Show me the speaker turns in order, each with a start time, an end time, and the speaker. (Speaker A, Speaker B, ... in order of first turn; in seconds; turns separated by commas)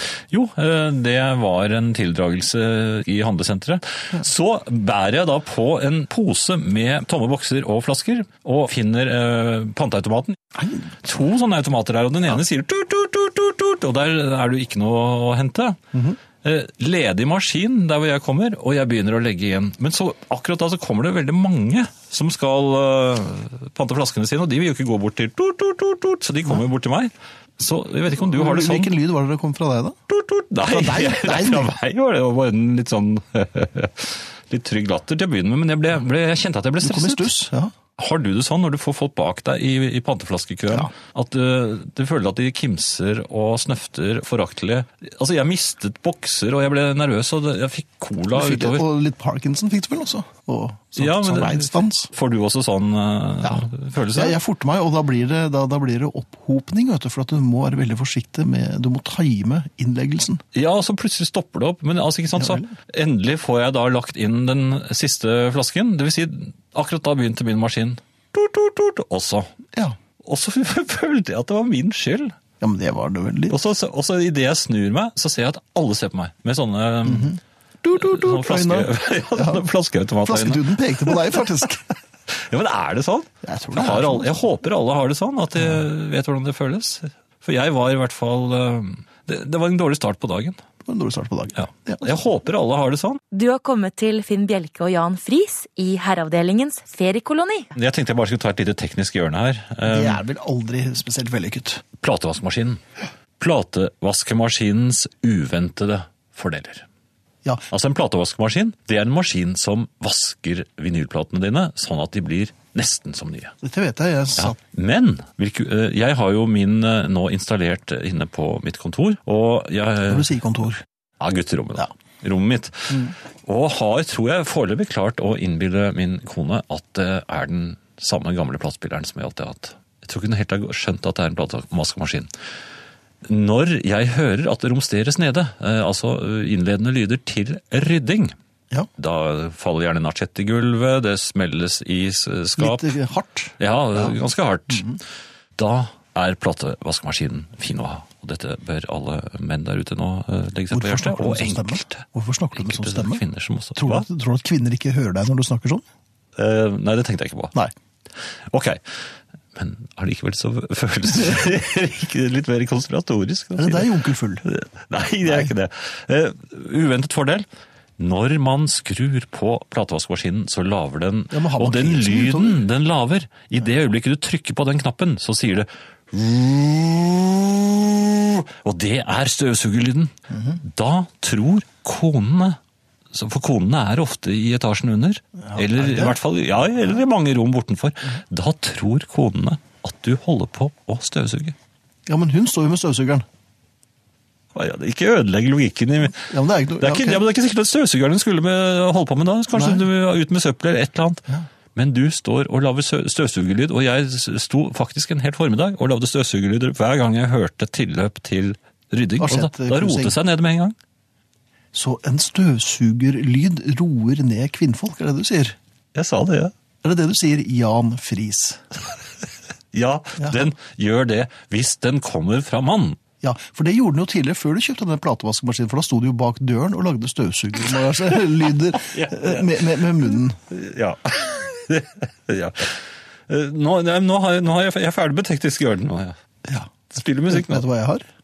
Speaker A: 0.3-15.8, Speaker B: 10.6-10.9, Speaker A: 16.4-28.9, Speaker B: 28.1-29.9, Speaker A: 30.1-48.8, Speaker B: 30.6-31.7, Speaker B: 36.8-37.7, Speaker B: 48.3-52.1, Speaker A: 51.0-54.4, Speaker B: 54.1-60.4, Speaker A: 60.5-69.5, Speaker B: 62.4-62.7, Speaker A: 70.2-72.3, Speaker B: 72.6-73.5, Speaker A: 73.5-77.4, Speaker B: 77.0-79.6, Speaker A: 77.9-81.6, Speaker B: 80.2-81.9, Speaker A: 82.3-90.6, Speaker B: 83.4-84.3, Speaker B: 90.8-92.1, Speaker A: 91.6-93.2, Speaker C: 93.3-97.7, Speaker A: 97.7-100.2, Speaker B: 99.8-101.8, Speaker A: 102.0-102.8, Speaker A: 103.4-106.8, Speaker A: 107.7-113.5, Speaker B: 113.6-114.6, Speaker A: 114.4-120.3, Speaker B: 120.1-120.8, Speaker A: 121.2-132.3, Speaker A: 133.2-138.3, Speaker A: 139.0-142.9, Speaker B: 142.6-144.2, Speaker A: 143.6-144.9, Speaker B: 144.7-145.0, Speaker A: 145.6-152.0, Speaker B: 150.7-153.2, Speaker A: 152.6-154.1, Speaker B: 153.8-155.8, Speaker A: 156.3-157.5, Speaker A: 158.5-158.8, Speaker A: 159.6-167.4, Speaker B: 163.6-164.4, Speaker A: 168.0-182.6, Speaker B: 171.3-172.6, Speaker A: 183.1-191.5, Speaker B: 185.4-186.2, Speaker B: 192.1-193.2, Speaker A: 194.5-210.7, Speaker B: 196.2-197.2, Speaker B: 199.5-199.8, Speaker B: 209.2-210.2, Speaker B: 211.7-215.6, Speaker A: 215.9-216.5, Speaker B: 216.8-218.6, Speaker A: 219.7-223.0, Speaker B: 223.2-230.4, Speaker A: 228.9-236.2, Speaker B: 236.4-236.7, Speaker A: 236.9-237.7, Speaker B: 237.3-238.1